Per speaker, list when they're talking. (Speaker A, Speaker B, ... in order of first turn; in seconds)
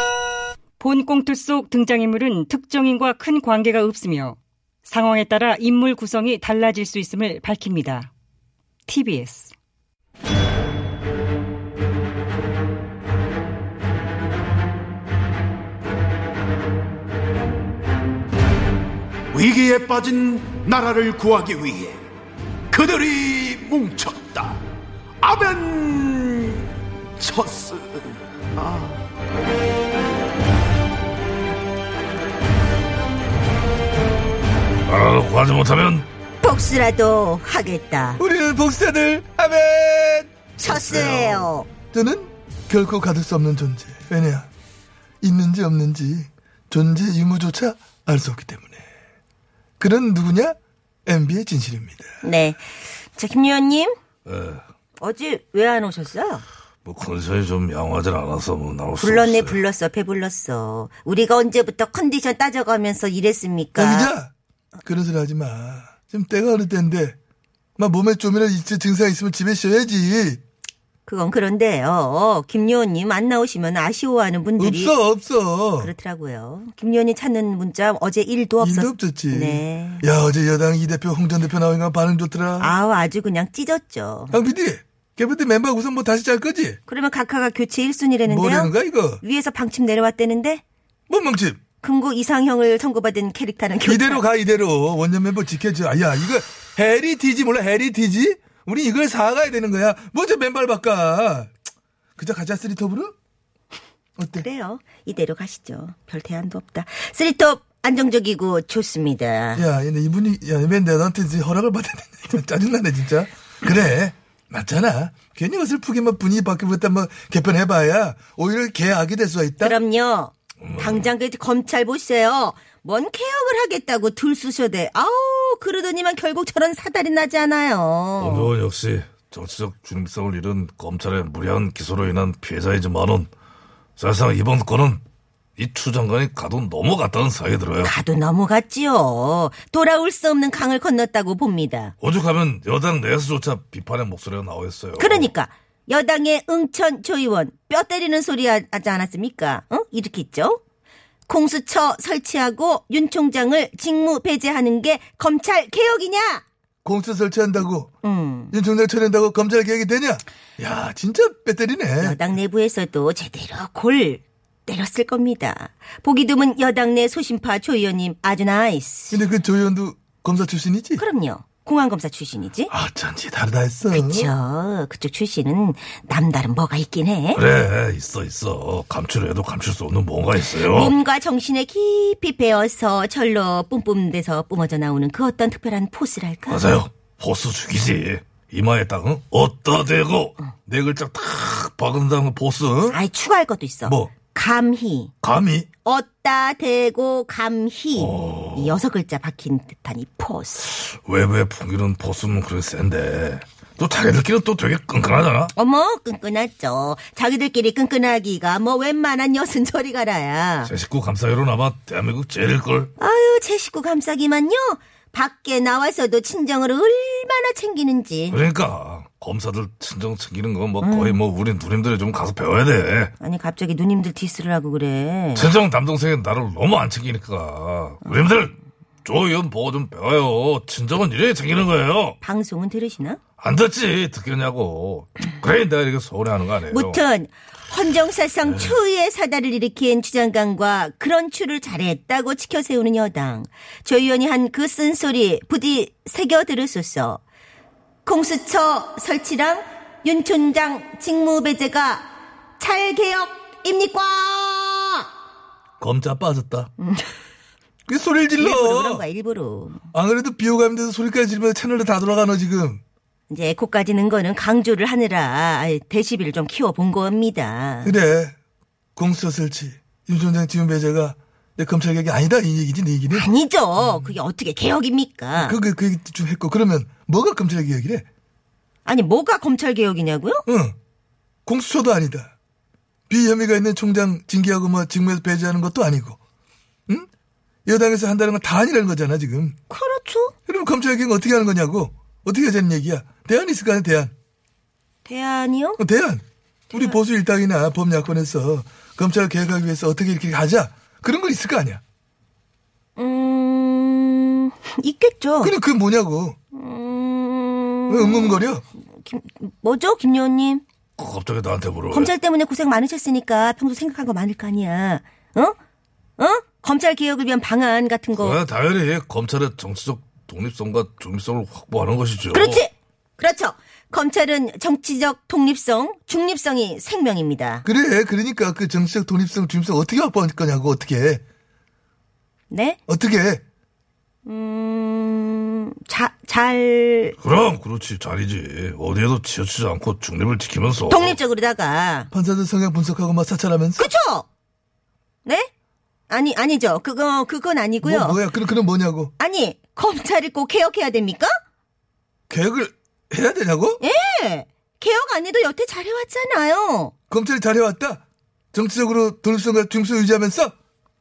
Speaker A: 0.8-8.1, 8.9-9.5
Speaker B: 19.4-21.9, 22.8-24.4, 25.2-26.4
Speaker C: 34.9-36.1, 40.6-41.5, 54.3-54.6, 56.9-59.6, 120.6-121.1, 128.2-133.3, 134.0-135.0, 135.6-137.9, 142.0-145.3, 177.3-181.0, 186.5-193.0, 195.2-195.7, 198.0-198.8, 200.8-205.5, 210.7-212.9, 218.3-223.1, 225.3-232.2, 233.4-237.0, 238.4-238.7, 255.8-256.7, 311.0-312.1, 318.1-322.6, 337.2-341.2
Speaker D: 36.4-38.2, 40.6-41.7, 52.2-54.0, 55.0-56.4, 59.0-64.1, 71.1-74.9, 75.8-80.0, 82.6-84.3, 86.9-90.6, 91.8-94.2, 104.4-109.7, 119.6-128.5, 137.8-141.9, 145.0-150.6, 151.3-156.4, 158.0-158.5, 162.0-169.2, 171.0-172.7, 173.9-177.4, 180.6-186.7, 192.9-195.1, 195.8-200.7, 205.5-210.7, 213.0-218.4, 220.8-221.2, 223.2-225.5, 232.2-233.2, 236.7-247.2, 248.1-255.1, 256.8-257.1, 258.4-259.8, 263.3-267.9, 273.1-275.6, 278.9-280.4, 289.7-290.3, 295.1-295.8, 303.0-305.5, 306.5-310.6, 311.9-315.6, 316.2-318.4, 322.3-327.6, 332.5-332.8, 334.3-337.2, 340.9-342.1, 343.8-344.3, 345.2-345.5, 346.1-348.2, 349.2-351.3, 353.8-356.9
Speaker E: 38.2-40.3, 41.9-44.5, 45.2-48.8, 49.8-52.1, 63.8-64.3, 64.8-67.2, 67.8-70.4, 74.6-75.9, 78.6-82.7, 84.3-86.8, 88.3-89.2, 91.1-91.6, 93.8-101.5, 102.2-103.1, 104.2-104.5, 109.6-119.8, 156.8-157.9, 158.5-162.2, 169.1-171.0, 172.8-174.3, 257.9-259.0, 259.9-262.8, 267.8-268.4, 269.0-274.1, 275.4-278.1, 280.5-280.8, 281.5-282.3, 283.1-286.2, 287.7-289.6, 290.5-294.1, 295.8-301.8, 305.4-306.4, 307.9-308.6, 327.6-331.2, 332.9-333.4, 342.1-343.9, 347.8-349.1, 352.3-353.8, 357.1-358.0, 358.5-360.5